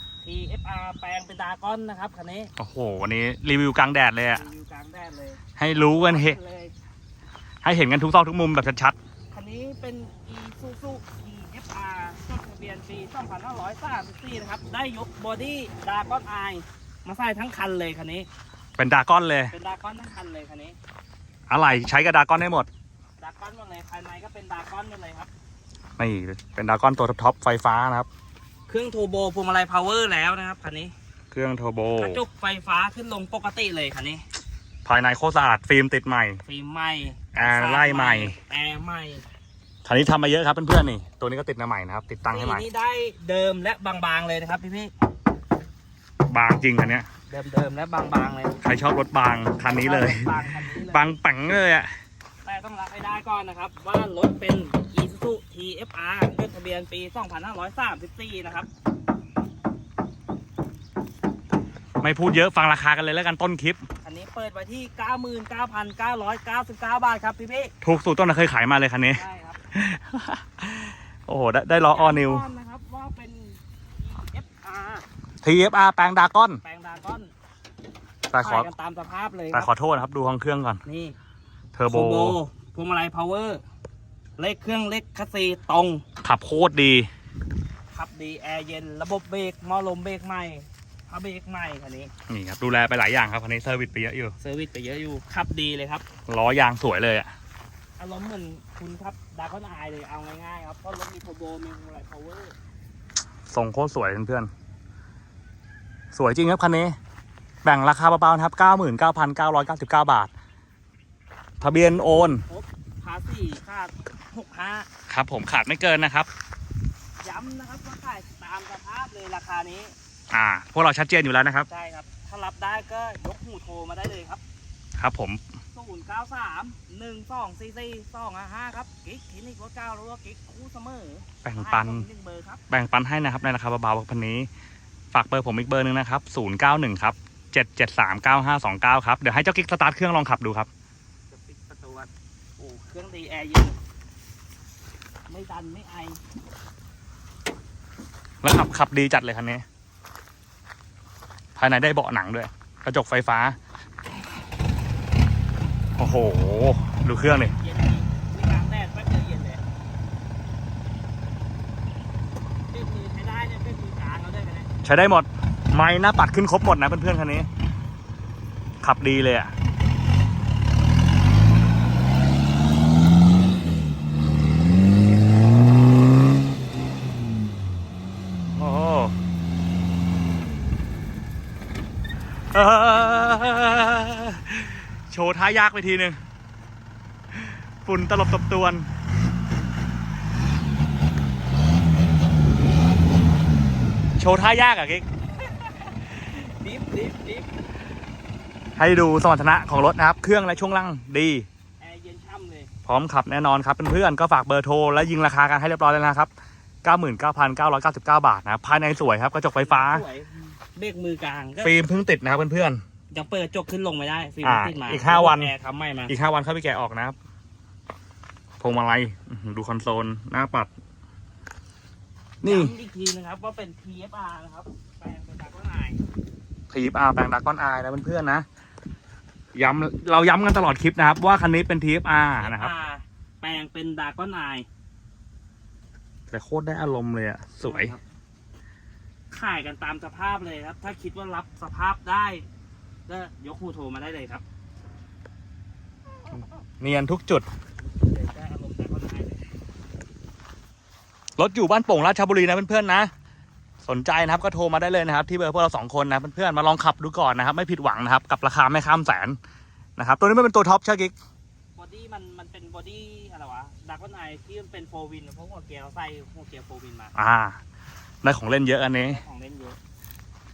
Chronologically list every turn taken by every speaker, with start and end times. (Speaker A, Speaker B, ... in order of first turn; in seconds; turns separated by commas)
Speaker A: 0.2-2.5, Speaker B: 2.6-4.4, Speaker A: 4.3-6.7, Speaker B: 5.6-6.4, Speaker B: 7.6-9.0, Speaker A: 9.3-18.3, Speaker B: 18.8-19.5, Speaker A: 19.5-20.8, Speaker B: 21.5-22.7, Speaker A: 23.2-25.3, Speaker B: 26.0-28.1, Speaker A: 28.7-30.9, Speaker B: 31.3-32.2, Speaker A: 32.0-34.2, Speaker B: 34.9-36.4, Speaker A: 36.5-39.2, Speaker B: 37.3-38.4, Speaker B: 39.9-42.6, Speaker A: 42.3-44.9, Speaker B: 46.3-47.1, Speaker A: 47.3-48.6, Speaker B: 48.6-50.3, Speaker A: 49.6-51.2, Speaker B: 50.9-51.9, Speaker A: 52.5-58.7, Speaker B: 62.0-63.8, Speaker A: 64.0-67.7, Speaker B: 67.8-69.2, Speaker A: 69.1-69.6, Speaker B: 69.7-72.4, Speaker A: 71.9-75.0, Speaker B: 75.4-76.6, Speaker A: 76.6-77.3, Speaker B: 78.3-78.7, Speaker A: 78.4-79.7, Speaker B: 79.5-80.8, Speaker A: 80.9-81.2, Speaker B: 81.8-82.4, Speaker A: 81.9-83.6, Speaker A: 84.4-86.0, Speaker B: 86.2-87.1, Speaker A: 87.9-92.1, Speaker B: 92.3-94.3, Speaker A: 94.4-96.0, Speaker B: 96.3-97.3, Speaker A: 98.0-102.5, Speaker B: 103.5-104.5, Speaker B: 106.1-107.0, Speaker B: 107.6-110.3, Speaker B: 111.6-112.4, Speaker A: 111.6-114.9, Speaker B: 115.1-116.3, Speaker A: 117.2-119.9, Speaker B: 120.3-121.7, Speaker A: 121.7-124.4, Speaker B: 125.0-125.4, Speaker A: 125.7-132.6, Speaker B: 131.4-132.1, Speaker B: 132.7-134.5, Speaker B: 135.1-140.7, Speaker A: 141.3-143.8, Speaker A: 145.3-146.2, Speaker B: 148.4-149.7, Speaker B: 151.6-153.6, Speaker B: 156.0-157.5, Speaker A: 157.3-159.6, Speaker A: 162.7-164.7, Speaker B: 164.8-167.5, Speaker B: 168.8-169.5, Speaker B: 178.5-179.2, Speaker B: 182.5-186.2, Speaker B: 187.3-188.9, Speaker B: 194.2-195.1, Speaker A: 195.6-197.5, Speaker B: 198.8-201.5, Speaker A: 201.8-202.7, Speaker B: 202.9-206.3, Speaker B: 206.8-210.1, Speaker A: 209.6-211.8, Speaker B: 211.6-212.8, Speaker A: 213.1-216.1, Speaker B: 214.4-215.5, Speaker B: 216.1-217.2, Speaker B: 218.6-220.7, Speaker B: 222.4-222.8, Speaker A: 222.4-226.0, Speaker B: 226.7-228.4, Speaker B: 229.6-232.7, Speaker A: 232.4-234.7, Speaker B: 236.3-237.9, Speaker A: 237.7-238.0, Speaker A: 239.3-242.4, Speaker A: 243.1-244.4, Speaker B: 246.3-247.5, Speaker A: 247.9-249.4, Speaker B: 251.4-253.1, Speaker B: 253.8-259.4, Speaker B: 260.0-261.1, Speaker A: 261.8-267.1, Speaker B: 267.2-267.6, Speaker B: 268.2-269.2, Speaker A: 269.1-269.8